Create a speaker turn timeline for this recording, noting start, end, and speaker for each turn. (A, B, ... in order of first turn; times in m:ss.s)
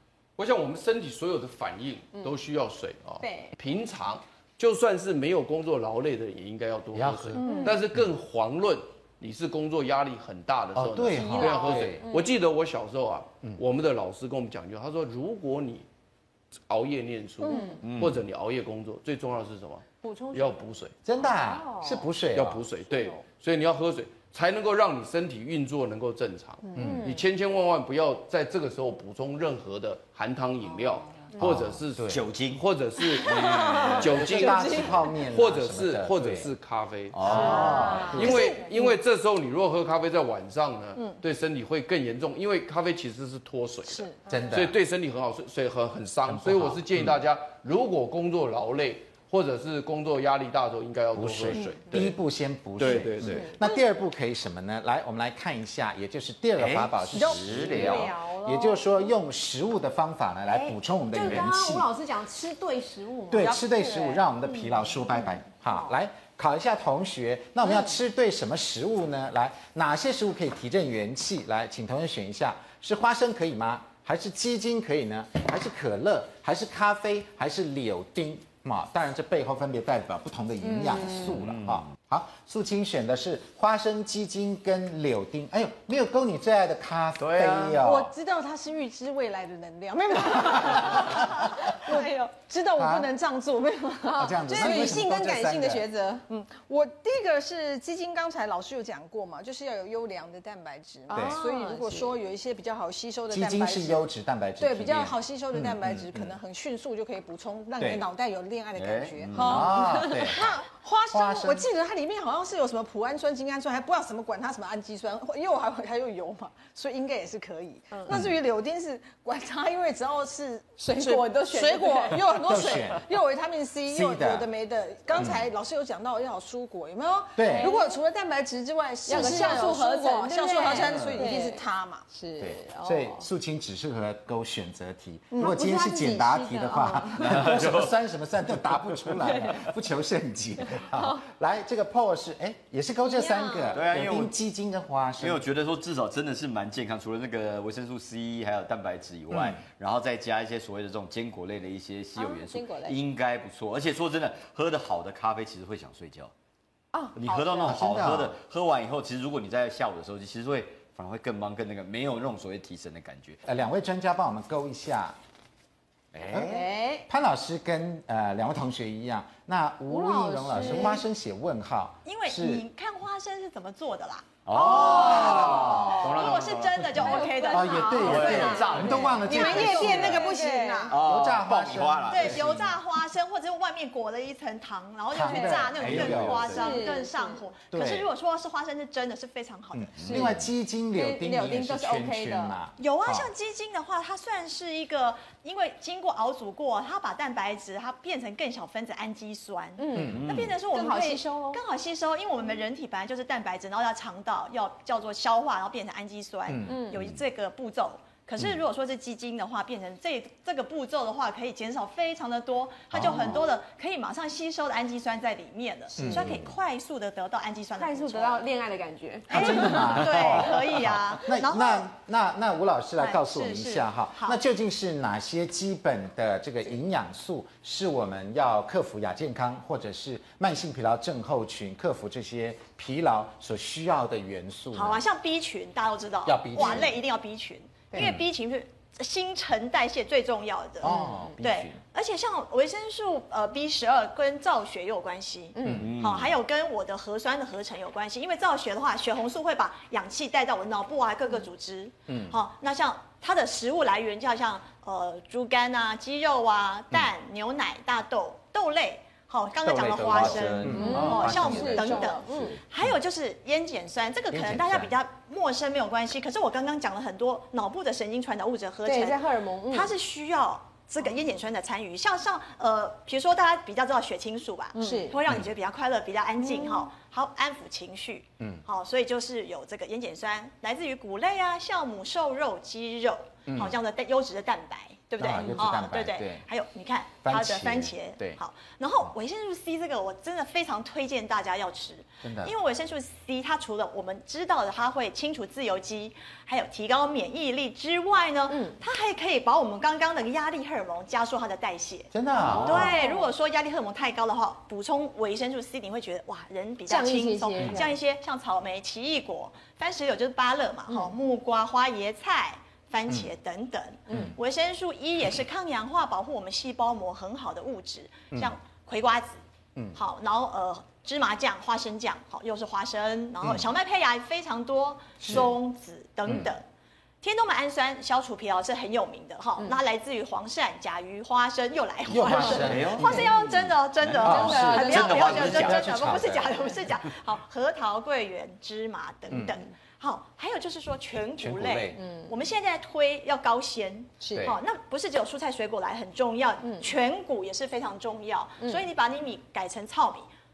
0:00.4-0:15.9 A
0:03.2-0:03.6 B
0:06.9-0:07.4 C
0:07.4-0:07.8 B
0:07.4-0:07.7 D
0:10.7-0:12.0 C
0:11.1-0:12.3 B
0:16.7-0:20.9 A
0:17.4-0:17.8 B
0:17.8-0:18.2 E
0:20.0-0:20.6 B
0:21.0-0:22.6 C
0:21.2-0:22.1 B
0:22.3-0:52.2 A
0:22.9-0:23.2 B
0:26.6-0:27.2 B
0:26.8-0:27.1 C
0:31.4-0:32.2 C
0:31.4-0:32.6 E
0:33.2-0:35.1 B
0:33.3-0:34.0 E
0:33.8-0:36.5 C
0:37.1-0:38.0 E
0:37.2-0:38.5 C
0:37.2-0:38.7 B
0:38.2-0:38.9 D
0:44.3-0:44.8 C
0:46.3-0:47.1 C
0:51.1-1:01.9 C
0:52.8-0:53.5 A
0:53.3-0:53.8 B
0:56.6-0:58.1 E
0:57.2-0:59.1 B
0:57.2-0:57.9 D
1:00.5-1:05.0 B
1:03.3-1:28.1 C
1:20.6-1:21.3 B
1:21.4-1:21.8 E
1:27.2-1:27.8 E
1:27.8-1:35.0 D
1:30.4-1:31.7 C
1:31.8-1:32.1 B
1:32.8-1:33.1 C
1:34.0-1:36.2 B
1:34.2-1:35.9 C
1:36.3-1:44.0 D
1:41.1-1:42.1 B
1:41.1-1:41.4 C
1:43.3-1:46.3 C
1:44.6-2:12.0 D
1:47.8-1:48.0 C
1:48.7-1:49.7 E
1:49.4-1:50.4 B
1:49.4-1:50.6 C
1:51.1-1:51.7 C
1:58.1-1:58.4 C
2:00.8-2:02.2 B
2:02.4-2:03.0 C
2:03.9-2:04.5 C
2:05.2-2:05.4 C
2:07.4-2:07.7 C
2:07.5-2:07.9 B
2:09.0-2:13.3 B
2:10.9-2:11.2 C
2:12.4-2:25.4 C
2:15.4-2:17.5 B
2:17.2-2:17.9 E
2:20.8-2:21.2 B
2:23.0-2:23.8 B
2:23.7-2:24.4 E
2:25.2-2:36.3 E
2:29.3-2:29.6 C
2:32.2-2:33.0 B
2:36.9-2:37.8 B
2:37.1-2:43.4 E
2:37.6-2:38.4 C
2:43.4-2:45.2 C
2:46.1-2:46.5 E
2:46.3-2:52.6 C
2:46.3-2:47.0 B
2:49.9-2:51.0 B
2:52.0-3:00.4 F
2:54.4-2:56.9 E
2:54.5-2:56.2 B
2:54.6-2:56.2 C
2:56.8-3:00.2 C
2:56.9-3:00.9 B
2:57.9-3:00.1 E
2:59.2-3:01.0 D
3:00.9-3:02.7 E
3:01.0-3:02.7 C
3:02.1-3:10.2 F
3:05.1-3:06.6 C
3:05.2-3:05.8 B
3:05.8-3:06.8 E
3:06.4-3:07.4 B
3:07.7-3:08.1 C
3:09.7-3:13.3 C
3:10.0-3:10.4 E
3:10.0-3:10.4 B
3:10.9-3:12.6 B
3:12.8-3:38.4 F
3:19.8-3:21.6 B
3:19.9-3:20.5 C
3:20.0-3:20.6 E
3:26.5-3:27.0 C
3:26.6-3:27.0 B
3:32.9-3:33.4 C
3:36.0-3:36.5 C
3:37.8-3:40.2 B
3:39.3-3:55.0 C
3:39.3-3:41.8 F
3:43.0-3:44.4 F
3:54.7-5:19.4 F
3:56.2-3:57.0 C
3:58.0-3:58.2 C
4:00.8-4:01.8 C
4:00.9-4:01.4 B
4:05.5-4:05.8 B
4:05.6-4:06.0 C
4:05.7-4:06.3 E
4:12.1-4:12.4 C
4:19.6-4:22.2 C
4:20.1-4:21.1 E
4:20.7-4:22.6 B
4:24.3-4:24.9 C
4:28.8-4:29.9 B
4:34.7-4:35.2 B
4:36.4-4:36.9 B
4:38.4-4:38.6 C
4:43.5-4:43.8 C
4:45.2-4:46.4 C
4:47.2-4:48.4 C
4:52.2-4:52.5 C
4:58.5-4:58.8 B
5:02.1-5:02.9 C
5:02.4-5:03.3 B
5:06.9-5:07.9 B
5:10.9-5:11.1 B
5:19.9-5:26.6 F
5:23.4-5:23.7 C
5:25.2-5:25.5 C
5:26.2-5:26.5 C
5:27.2-5:50.3 F
5:32.1-5:33.4 C
5:32.4-5:36.0 E
5:34.1-5:36.7 C
5:34.2-5:35.4 B
5:39.3-5:39.6 C
5:41.4-5:42.0 C
5:41.9-5:42.3 B
5:44.2-5:44.5 B
5:46.6-5:46.9 B